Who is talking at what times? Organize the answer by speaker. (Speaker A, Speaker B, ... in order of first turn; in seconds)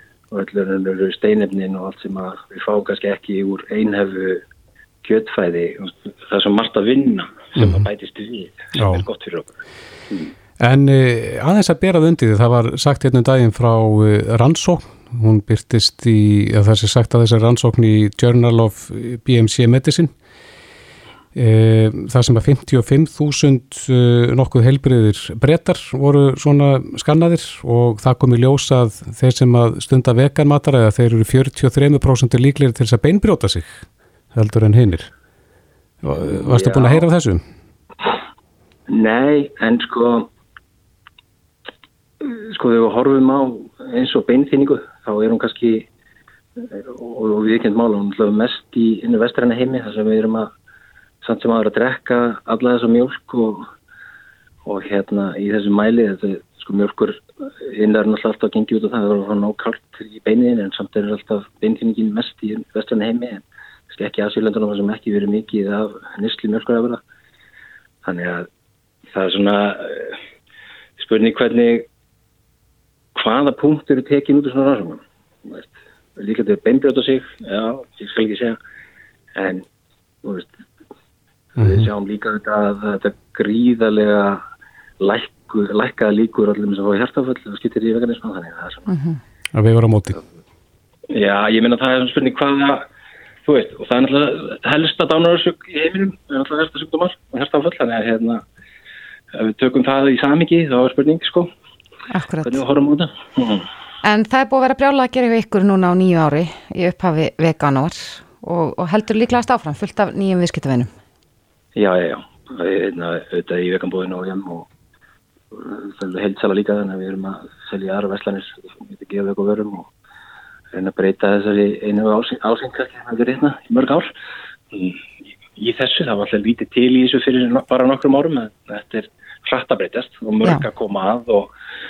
Speaker A: 0.3-4.4, 5.0-9.6, 36.2-37.0, 38.9-40.3, 42.2-45.9, 46.6-50.5, 51.2-53.6, 54.6-67.0, 68.0-68.5, 69.1-70.1, 71.0-71.9, 73.1-78.6, 79.3-79.6, 80.2-80.5, 81.6-84.4, 85.0-88.9, 91.1-92.9, 93.4-98.4, 99.3-101.5, 102.4-103.7, 111.8-114.7, 115.5-119.9, 120.7-124.1, 124.7-125.0, 125.5-131.5
Speaker B: 7.5-7.9, 8.7-9.0, 10.6-20.1, 21.3-33.8, 34.3-35.1, 36.0-37.4, 81.6-81.9, 89.5-90.2
Speaker C: 88.9-89.2, 102.1-102.6, 104.0-110.9